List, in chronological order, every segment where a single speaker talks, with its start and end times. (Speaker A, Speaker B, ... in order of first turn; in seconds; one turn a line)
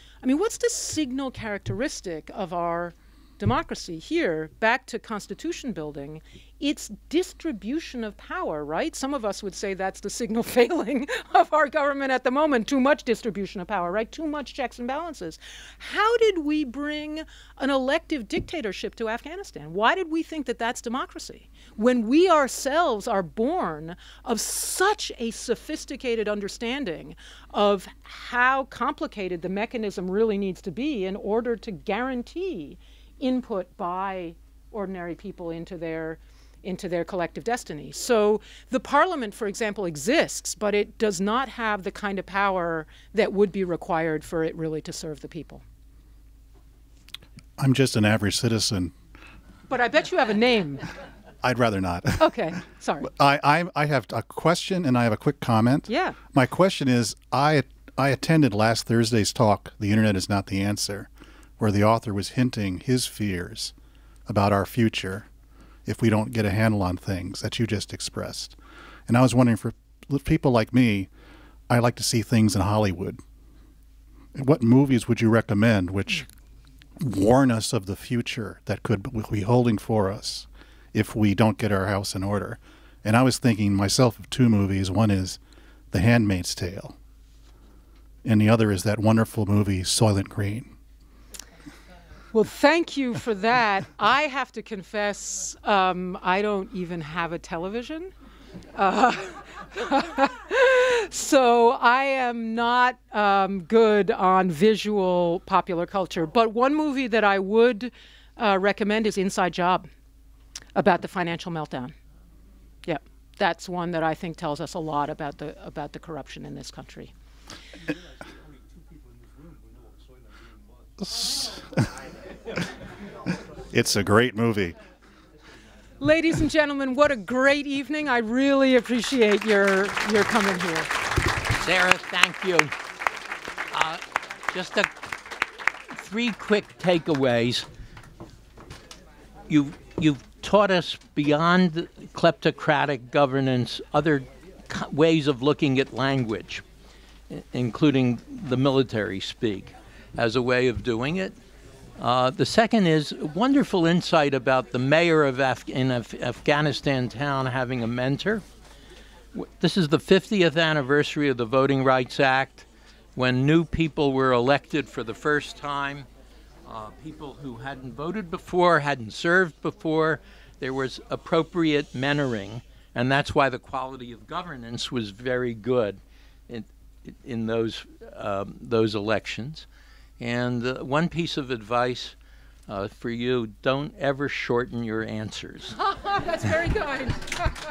Speaker A: 0.2-45.6
Speaker B: 47.6-49.0
Speaker A: 49.7-50.9
Speaker B: 51.4-63.7
Speaker A: 52.2-53.1
Speaker A: 55.9-56.2
Speaker B: 64.3-65.3
Speaker B: 65.9-71.1
Speaker B: 71.7-73.2
Speaker B: 74.3-76.3
Speaker B: 77.0-85.4
Speaker B: 85.9-87.0
Speaker B: 88.2-90.7
Speaker A: 92.3-98.1
Speaker A: 98.8-109.9
Speaker A: 110.8-112.0
Speaker A: 112.9-117.1
Speaker B: 121.0-121.8
Speaker B: 123.7-124.8
Speaker A: 126.0-130.9
Speaker C: 131.5-132.8
Speaker C: 133.7-135.3
Speaker C: 135.9-137.7
Speaker C: 139.5-146.7
Speaker C: 147.3-151.4
Speaker C: 152.0-158.4
Speaker C: 159.3-166.1
Speaker C: 166.7-179.7
Speaker C: 180.2-182.2
Speaker C: 182.7-185.8
Speaker A: 185.7-187.5